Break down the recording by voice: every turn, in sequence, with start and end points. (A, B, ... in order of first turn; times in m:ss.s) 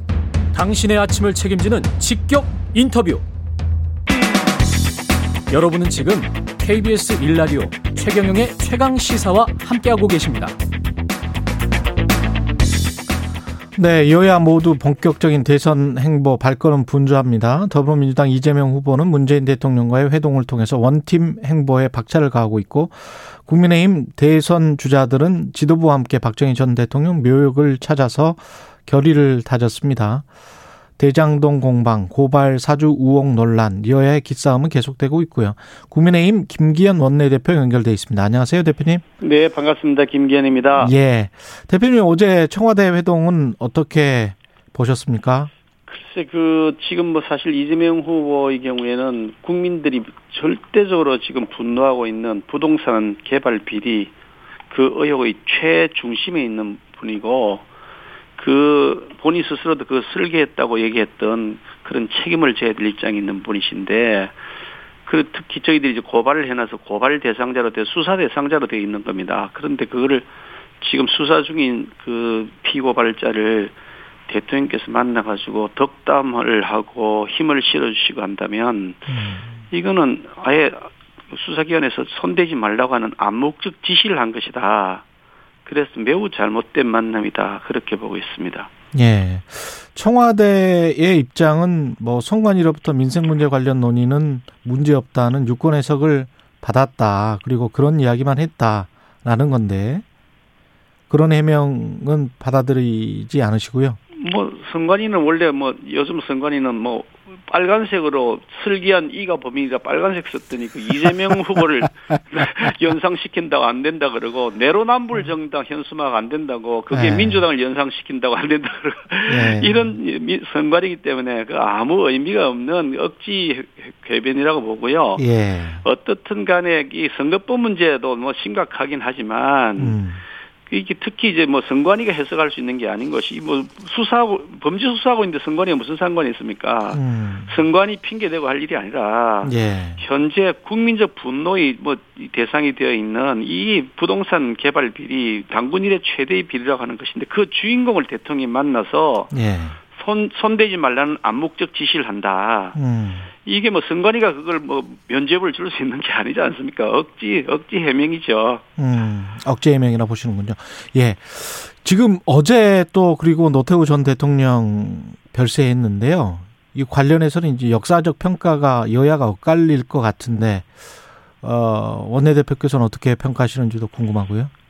0:00.5-0:03.2 A
0:05.5-0:10.5 A
0:13.8-0:30.2 B
0:31.0-0:39.0 B
0:39.2-0:40.9 C
0:40.8-0:45.5 B
0:45.9-0:54.1 C
0:54.7-0:57.6 C
0:58.4-1:04.3 C
1:05.0-1:10.3 C
1:10.8-1:13.7 C
1:14.3-1:25.0 C
1:19.1-1:19.4 B
1:25.6-1:28.7 C
1:28.9-1:40.0 B
1:41.1-1:44.0 B
1:44.1-2:05.2 C
1:56.9-1:57.4 B
1:59.3-1:59.9 B
2:05.2-2:05.8 B
2:05.8-2:10.0 C
2:09.8-2:10.2 B
2:10.7-2:29.3 C
2:16.9-2:17.5 B
2:19.4-2:20.0 B
2:29.3-2:29.8 B
2:29.9-2:32.8 C
2:32.7-2:33.3 B
2:33.4-2:38.6 C
2:38.8-2:50.7 B
2:51.4-2:54.5 B